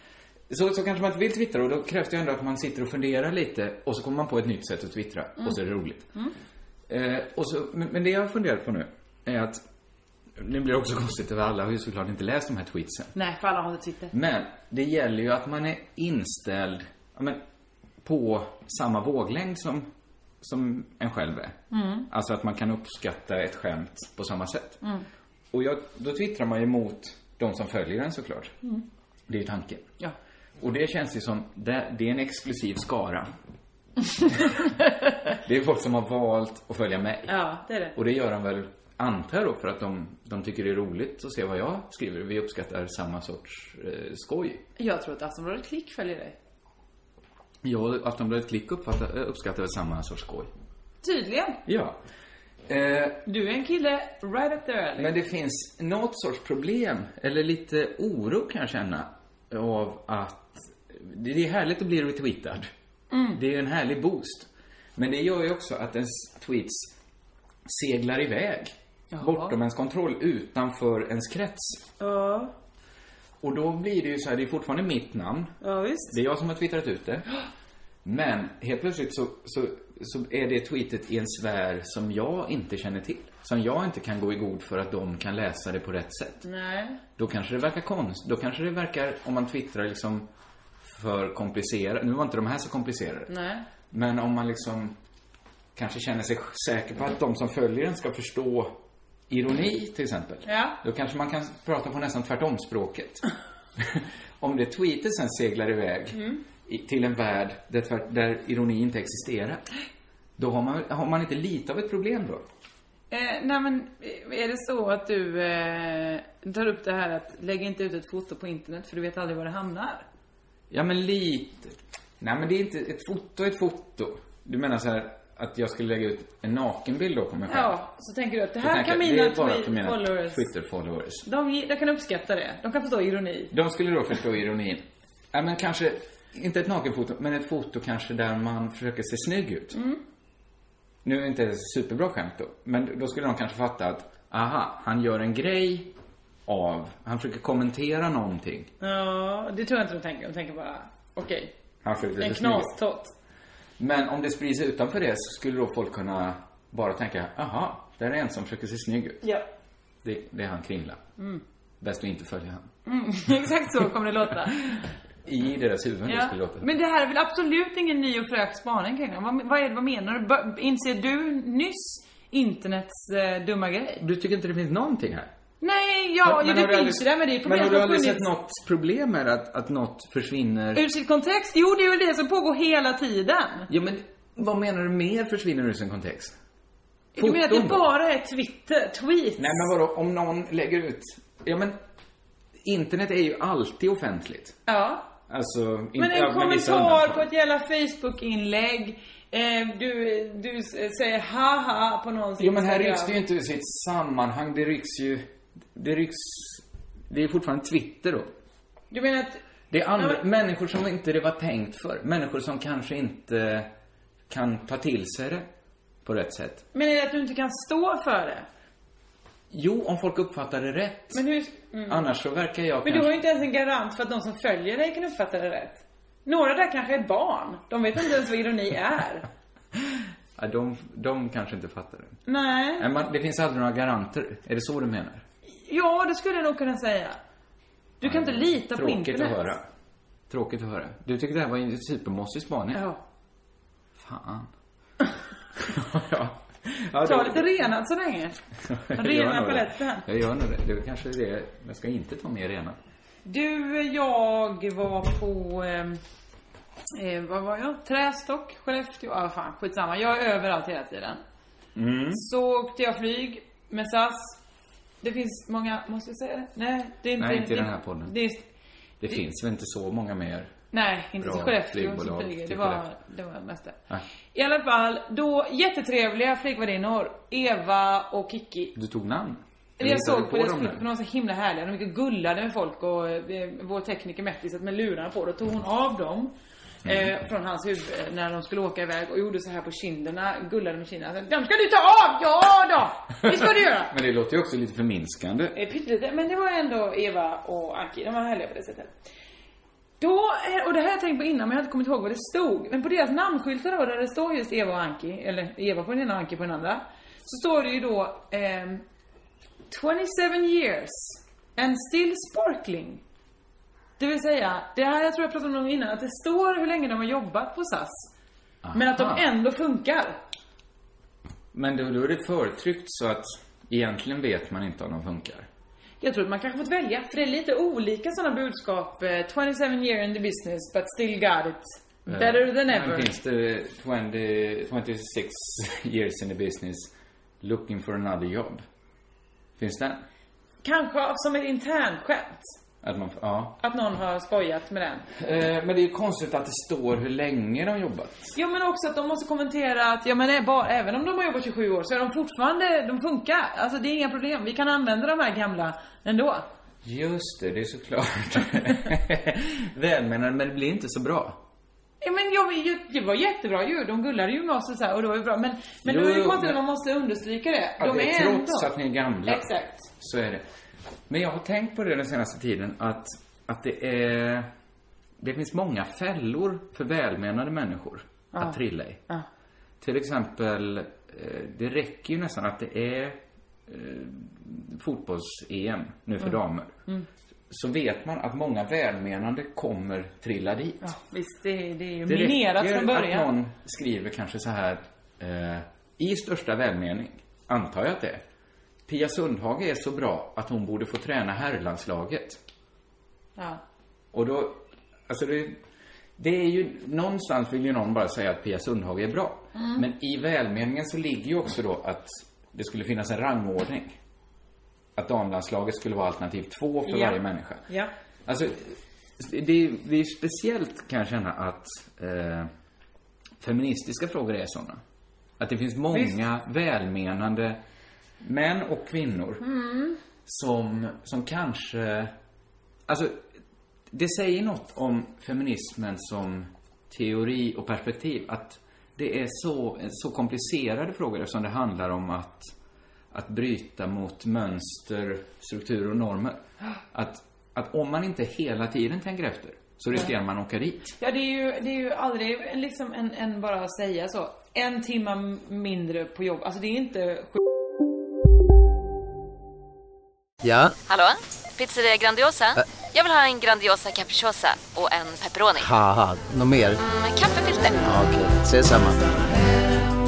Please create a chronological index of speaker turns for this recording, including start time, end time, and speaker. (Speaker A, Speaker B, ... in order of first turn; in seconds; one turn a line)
Speaker A: 0.5-6.1
Speaker A: 6.9-9.6
Speaker A: 10.3-13.1
Speaker B: 13.1-14.1
Speaker A: 14.1-17.4
Speaker A: 18.0-19.9
Speaker A: 20.4-24.8
Speaker B: 21.7-22.1
Speaker A: 25.5-28.5
Speaker A: 29.3-29.9
Speaker A: 30.6-33.3
Speaker A: 35.4-37.4
Speaker B: 37.3-38.0
Speaker A: 37.9-44.6
Speaker B: 44.8-46.4
Speaker A: 47.6-50.5
Speaker B: 51.0-51.6
Speaker A: 51.6-52.0
Speaker A: 52.7-53.2
Speaker B: 53.2-55.1
Speaker A: 55.0-62.7
Speaker B: 63.1-63.4
Speaker A: 63.3-66.9
Speaker A: 67.7-71.8
Speaker B: 69.1-69.5
Speaker B: 72.0-72.5
Speaker A: 73.4-75.5
Speaker B: 75.6-76.1
Speaker A: 76.1-77.2
Speaker A: 78.0-86.4
Speaker B: 86.4-87.0
Speaker A: 87.2-90.3
Speaker A: 90.8-93.3
Speaker B: 93.3-93.6
Speaker A: 93.9-95.0
Speaker A: 95.7-98.8
Speaker A: 99.3-103.2
Speaker B: 100.5-100.8
Speaker A: 103.8-109.6
Speaker B: 106.1-106.4
Speaker A: 110.4-112.4
Speaker B: 113.1-120.0
Speaker A: 120.7-127.7
Speaker B: 127.5-130.4
Speaker A: 128.6-131.2
Speaker B: 131.2-133.5
Speaker A: 133.5-139.8
Speaker B: 139.7-140.0
Speaker A: 141.0-145.9
Speaker A: 146.4-148.7
Speaker B: 148.8-151.5
Speaker A: 151.8-152.8
Speaker B: 152.2-153.1
Speaker A: 153.8-159.2
Speaker A: 160.0-161.0
Speaker A: 161.8-162.7
Speaker B: 162.8-164.7
Speaker A: 164.7-166.7
Speaker B: 166.1-174.0
Speaker A: 174.0-175.3
Speaker B: 175.6-178.2
Speaker A: 176.2-180.8
Speaker B: 180.7-183.7
Speaker A: 183.7-186.4
Speaker B: 187.1-189.5
Speaker A: 187.2-187.9
Speaker A: 189.4-191.8
Speaker A: 192.6-194.6
Speaker B: 194.7-195.1
Speaker A: 195.3-197.3
Speaker B: 196.0-203.2
Speaker A: 202.4-208.3
Speaker B: 208.9-209.4
Speaker A: 209.7-213.7
Speaker B: 209.9-210.2
Speaker A: 214.3-215.5
Speaker A: 216.0-216.6
Speaker B: 216.7-218.4
Speaker A: 219.5-221.2
Speaker B: 221.1-222.1
Speaker A: 221.9-223.1
Speaker B: 222.8-229.3
Speaker A: 229.8-232.2
Speaker B: 232.2-232.9
Speaker A: 232.8-235.2
Speaker B: 235.7-237.2
Speaker B: 238.0-239.5
Speaker A: 238.0-239.6
Speaker A: 240.3-242.8
Speaker B: 242.7-243.0
Speaker A: 243.9-244.5
Speaker A: 245.6-247.6
Speaker B: 247.0-248.4
Speaker A: 248.6-252.8
Speaker B: 248.9-250.0
Speaker B: 253.2-256.0
Speaker B: 256.9-261.2
Speaker A: 261.7-262.2
Speaker B: 262.1-264.4
Speaker B: 265.0-268.4
Speaker A: 267.2-268.1
Speaker A: 269.0-270.5
Speaker B: 270.7-273.8
Speaker A: 271.2-272.8
Speaker B: 274.3-278.7
Speaker A: 278.7-280.8
Speaker B: 279.8-286.3
Speaker A: 286.8-287.1
Speaker B: 286.8-293.9
Speaker A: 293.2-295.6
Speaker B: 295.5-298.9
Speaker B: 300.0-308.8
Speaker B: 309.7-313.0
Speaker B: 314.0-318.1
Speaker A: 318.6-319.2
Speaker B: 318.7-320.2
Speaker A: 321.5-325.5
Speaker B: 326.0-333.1
Speaker A: 332.1-338.6
Speaker A: 339.6-340.0
Speaker B: 340.6-342.5
Speaker A: 342.8-343.6
Speaker B: 343.6-345.1
Speaker A: 345.1-348.3
Speaker B: 348.3-356.4
Speaker A: 356.8-361.4
Speaker B: 362.0-368.7
Speaker A: 365.8-366.6
Speaker A: 367.8-370.4
Speaker B: 369.2-369.9
Speaker A: 371.1-374.5
Speaker A: 375.2-379.0
Speaker B: 378.3-379.2
Speaker A: 379.8-386.8
Speaker A: 387.5-390.9
Speaker B: 390.8-393.3
Speaker A: 392.1-398.2
Speaker A: 398.9-402.4
Speaker A: 404.1-405.6
Speaker A: 406.2-413.9
Speaker B: 409.5-409.8
Speaker A: 414.9-417.6
Speaker B: 416.9-417.9
Speaker A: 418.2-422.5
Speaker A: 423.4-424.8
Speaker A: 425.4-427.6
Speaker A: 428.2-429.4
Speaker B: 429.4-430.0
Speaker A: 430.2-432.1
Speaker A: 432.9-433.2
Speaker A: 433.9-442.5
Speaker A: 443.1-446.4
Speaker A: 446.9-450.9
Speaker B: 451.0-457.4
Speaker C: 460.4-460.7
Speaker D: 460.9-465.7
Speaker C: 465.6-466.8
Speaker D: 466.8-467.8
Speaker C: 467.8-469.1